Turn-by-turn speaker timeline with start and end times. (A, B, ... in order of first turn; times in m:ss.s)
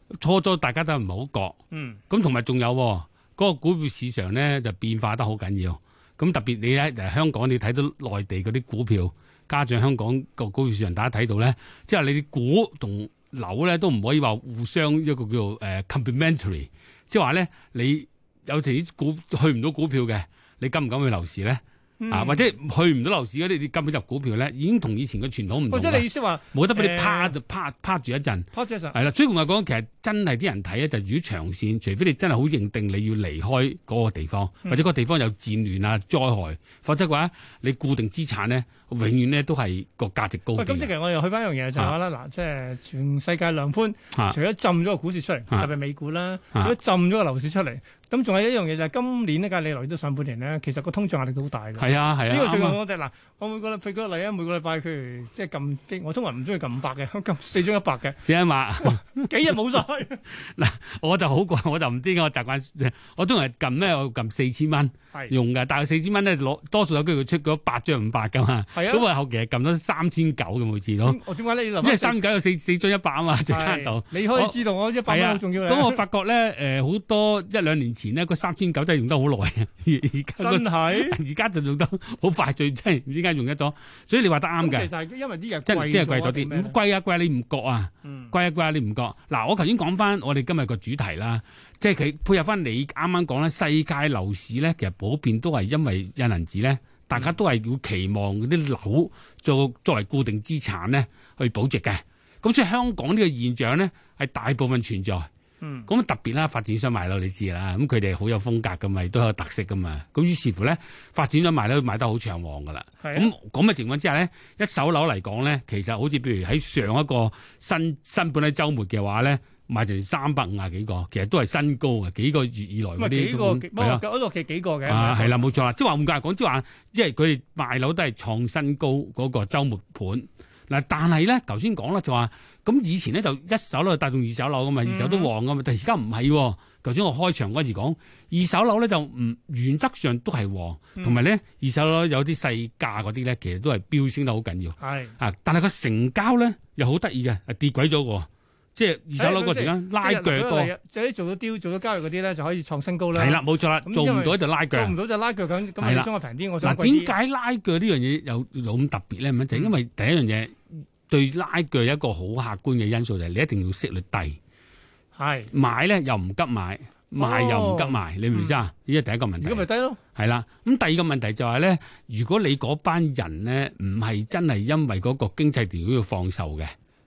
0:00.2-0:01.6 A
0:01.7-0:02.0 B
0:02.1-0:40.9 A
0:22.0-0:22.5 B
0:25.7-0:27.3 B
0:28.5-0:29.0 B
0:40.5-0:58.2 B
0:51.8-0:52.8 A
0:58.2-0:59.3 A
0:58.8-1:00.2 B
1:00.3-1:11.2 A
1:08.7-1:09.1 B
1:11.0-1:12.2 B
1:11.8-1:24.9 A
1:13.5-1:16.0 B
1:20.4-1:21.2 B
1:24.6-1:26.8 B
1:25.6-1:45.3 A
1:28.0-1:28.3 B
1:45.6-1:45.9 B
1:45.9-2:04.0 A
1:53.0-1:53.3 B
2:03.0-2:05.5 B
2:04.8-2:30.7 A
2:14.8-2:15.3 B
2:24.8-2:25.2 B
2:29.2-2:37.1 B
2:33.1-2:34.9 A
2:35.8-2:36.1 A
2:36.6-2:44.4 A
2:45.2-2:45.5 B
2:45.5-2:56.7 A
2:47.2-2:48.6 B
2:49.4-2:50.0 B